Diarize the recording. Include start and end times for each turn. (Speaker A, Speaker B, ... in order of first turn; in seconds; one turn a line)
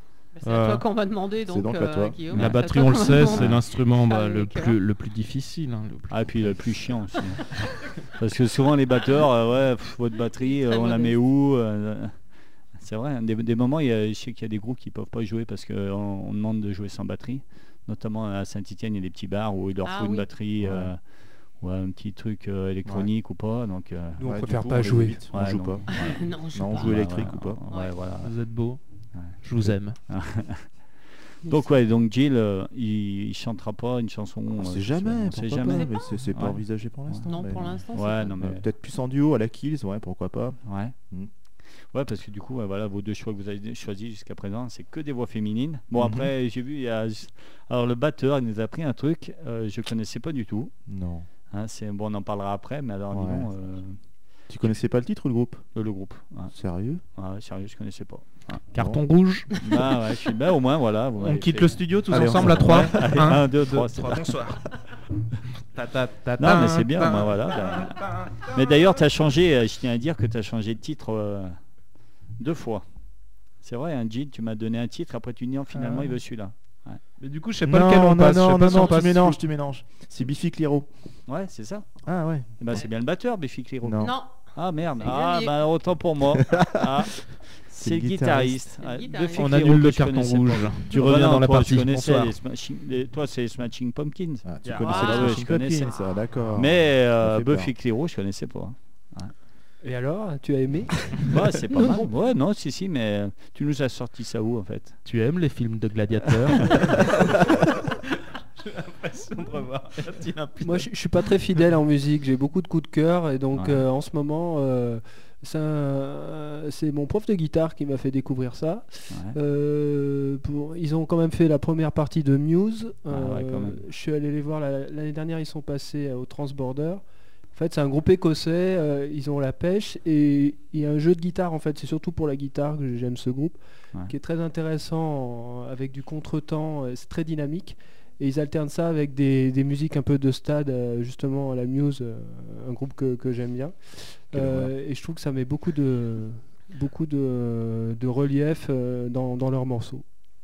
Speaker A: 0.3-4.8
Speaker B: 0.4-0.8
Speaker C: 1.5-3.6
Speaker B: 2.3-6.7
Speaker D: 3.1-3.6
Speaker D: 6.1-24.2
Speaker A: 10.4-11.2
Speaker A: 19.8-20.3
Speaker C: 20.6-20.9
Speaker C: 22.8-23.1
Speaker E: 24.2-25.3
Speaker C: 24.2-27.6
Speaker D: 25.3-38.6
Speaker A: 25.9-27.9
Speaker B: 28.2-30.0
Speaker A: 31.4-31.8
Speaker C: 34.5-41.3
Speaker A: 35.6-36.0
Speaker A: 37.3-38.4
Speaker D: 40.6-40.9
Speaker D: 41.8-50.7
Speaker C: 46.0-46.3
Speaker C: 50.9-51.3
Speaker D: 51.5-54.0
Speaker C: 53.1-53.5
Speaker C: 54.5-55.7
Speaker D: 55.7-58.6
Speaker C: 56.5-57.0
Speaker B: 58.7-59.6
Speaker C: 58.7-59.0
Speaker D: 59.6-64.4
Speaker B: 61.2-65.0
Speaker C: 62.1-63.2
Speaker B: 65.7-69.0
Speaker D: 66.4-77.0
Speaker B: 75.7-76.1
Speaker B: 77.2-79.4
Speaker C: 77.6-81.3
Speaker D: 81.3-99.3
Speaker C: 82.0-83.0
Speaker C: 83.8-84.1
Speaker A: 84.0-85.6
Speaker C: 87.7-88.7
Speaker A: 88.8-89.6
Speaker B: 89.3-92.3
Speaker C: 94.4-97.7
Speaker A: 94.8-96.2
Speaker E: 99.8-102.1
Speaker D: 101.3-105.0
Speaker B: 105.0-108.0
Speaker B: 108.5-111.3
Speaker E: 110.6-150.0
Speaker D: 113.5-113.9
Speaker D: 119.1-119.3
Speaker D: 123.1-123.8
Speaker C: 144.3-144.7